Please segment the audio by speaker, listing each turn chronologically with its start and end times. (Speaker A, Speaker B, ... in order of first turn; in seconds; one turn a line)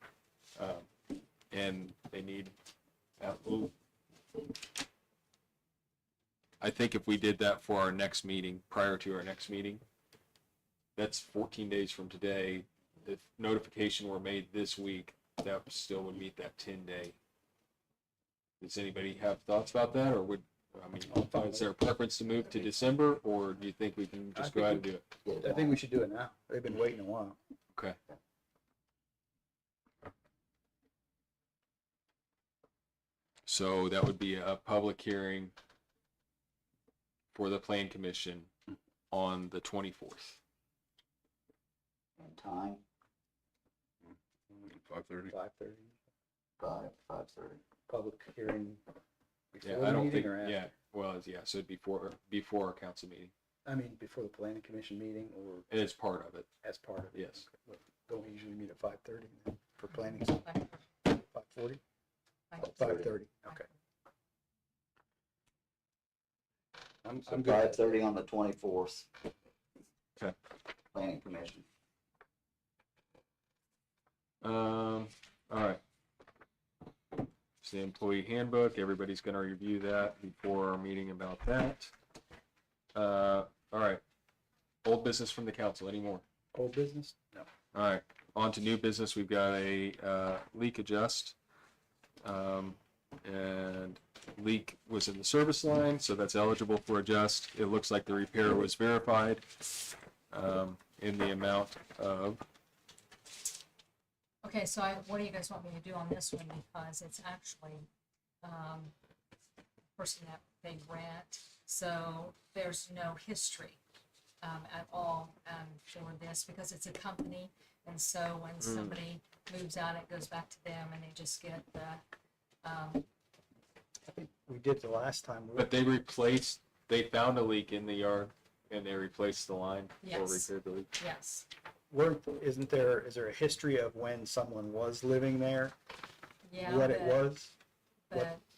Speaker A: 0.6-0.9
Speaker A: 1.5-2.5
Speaker A: 3.2-3.7
Speaker A: 6.6-9.8
Speaker A: 10.9-17.1
Speaker A: 18.6-25.0
Speaker B: 21.1-21.7
Speaker B: 24.3-24.9
Speaker C: 25.2-25.8
Speaker B: 25.4-27.4
Speaker A: 33.5-35.5
Speaker A: 37.3-38.5
Speaker A: 39.1-40.4
Speaker C: 42.2-42.8
Speaker A: 44.7-45.3
Speaker B: 45.3-45.9
Speaker C: 46.6-47.6
Speaker B: 47.9-48.8
Speaker B: 49.5-50.7
Speaker A: 49.6-53.3
Speaker B: 53.6-55.6
Speaker A: 55.7-56.5
Speaker B: 56.6-60.4
Speaker A: 57.1-57.4
Speaker D: 59.9-60.8
Speaker B: 61.0-61.8
Speaker D: 62.5-62.8
Speaker C: 62.6-63.1
Speaker B: 62.7-63.6
Speaker B: 67.0-67.9
Speaker C: 67.2-69.1
Speaker C: 70.9-71.6
Speaker A: 74.4-75.8
Speaker A: 77.6-81.9
Speaker A: 82.9-84.0
Speaker A: 84.8-86.2
Speaker B: 86.5-87.5
Speaker A: 87.7-91.3
Speaker A: 92.2-99.5
Speaker A: 100.3-102.4
Speaker D: 104.4-107.8
Speaker D: 108.4-108.9
Speaker D: 110.0-113.8
Speaker D: 114.4-122.0
Speaker A: 118.6-119.0
Speaker D: 122.6-123.0
Speaker B: 124.0-125.7
Speaker A: 125.5-130.9
Speaker D: 130.0-131.5
Speaker B: 131.9-135.7
Speaker D: 136.4-137.2
Speaker B: 136.6-137.5
Speaker D: 138.1-138.4